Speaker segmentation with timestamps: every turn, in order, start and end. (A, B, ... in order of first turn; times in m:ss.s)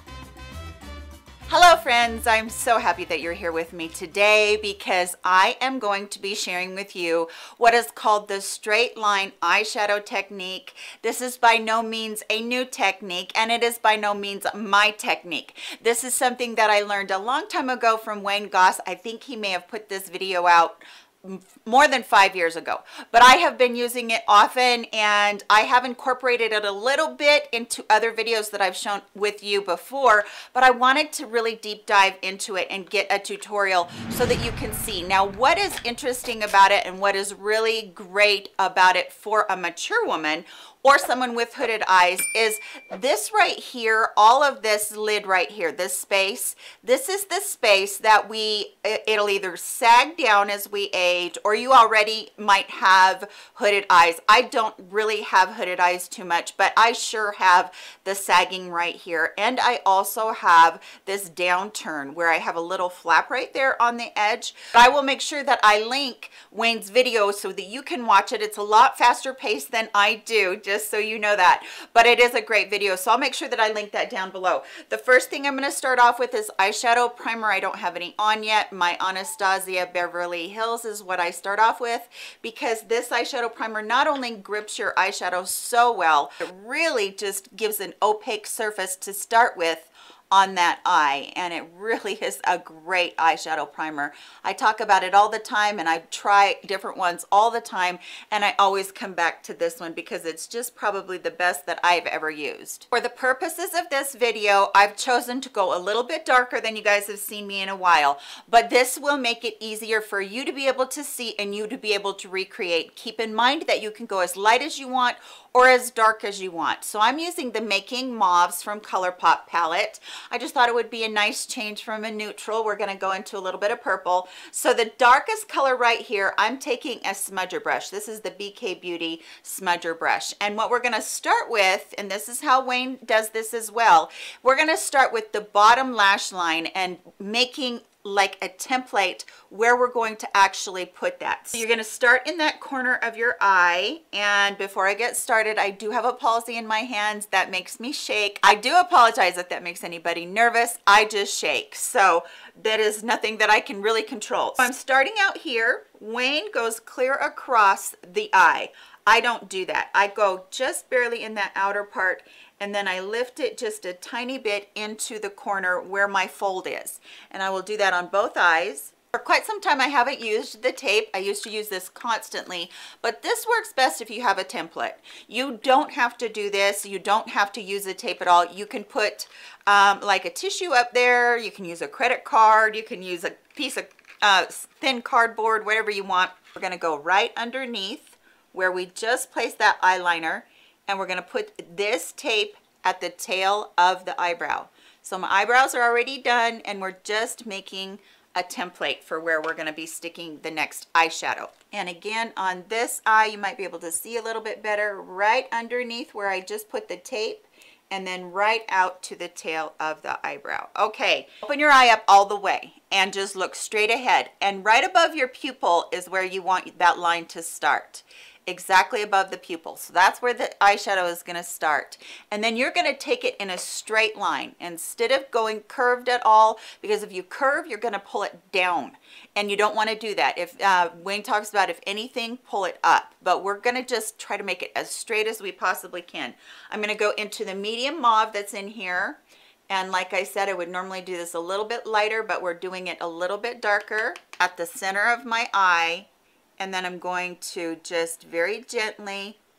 0:01.5-4:09.4 A